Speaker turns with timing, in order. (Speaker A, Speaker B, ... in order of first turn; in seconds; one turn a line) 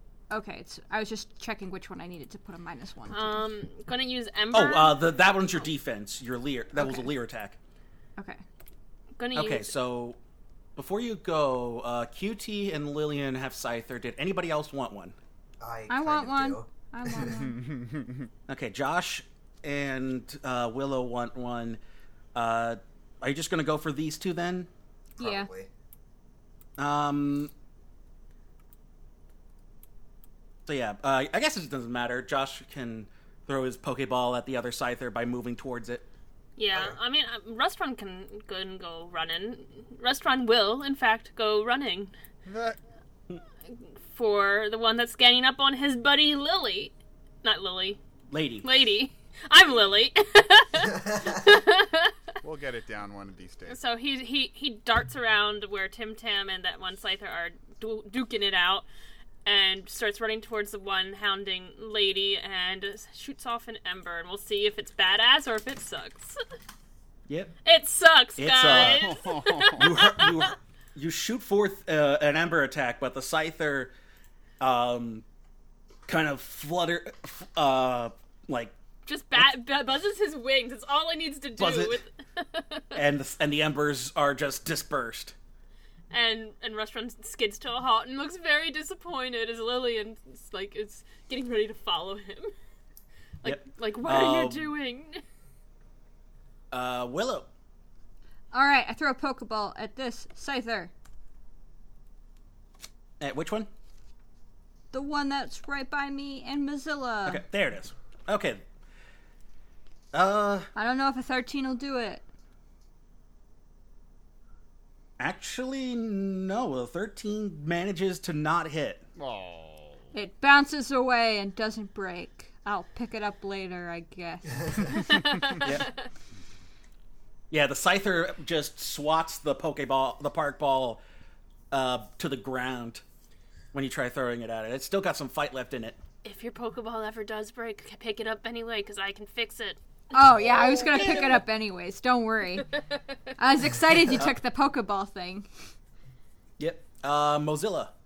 Speaker A: 0.3-3.5
Speaker B: 3.1-5.1
Speaker C: 4.5-7.6
Speaker A: 6.8-7.1
Speaker A: 8.2-8.4
Speaker B: 9.2-9.7
Speaker C: 9.3-10.2
Speaker C: 10.8-15.2
Speaker D: 15.6-17.4
Speaker A: 15.9-17.6
Speaker E: 17.3-18.3
Speaker C: 18.5-21.8
Speaker C: 22.4-24.7
Speaker A: 25.2-25.5
Speaker D: 25.2-25.7
Speaker C: 26.8-27.5
Speaker C: 30.7-36.1
Speaker B: 36.6-42.1
Speaker E: 42.5-42.8
Speaker B: 43.7-48.0
Speaker C: 48.3-48.7
Speaker B: 48.6-52.1
Speaker E: 52.4-53.8
Speaker B: 53.7-58.9
Speaker B: 59.5-66.4
Speaker C: 67.3-67.5
Speaker B: 67.7-70.5
Speaker C: 68.4-69.1
Speaker E: 68.6-70.0
Speaker C: 69.8-73.9
Speaker C: 74.6-75.2
Speaker C: 76.1-78.8
Speaker B: 79.1-82.8
Speaker C: 81.6-82.0
Speaker C: 82.9-85.3
Speaker B: 86.1-92.5
Speaker B: 93.4-95.2
Speaker C: 93.4-94.7
Speaker C: 96.7-97.5
Speaker A: 98.5-100.9
Speaker C: 103.2-103.7
Speaker A: 104.9-107.4
Speaker C: 107.3-108.6
Speaker C: 110.1-110.7
Speaker A: 110.8-112.2
Speaker C: 115.2-119.0
Speaker E: 119.2-120.0
Speaker A: 120.1-124.9
Speaker B: 124.9-126.1
Speaker C: 125.6-125.9
Speaker C: 127.5-131.0
Speaker C: 131.7-133.0
Speaker C: 133.7-136.0
Speaker B: 136.2-139.8
Speaker A: 140.1-142.8
Speaker C: 140.7-141.4
Speaker A: 143.4-145.5
Speaker C: 144.1-144.3
Speaker C: 146.6-147.9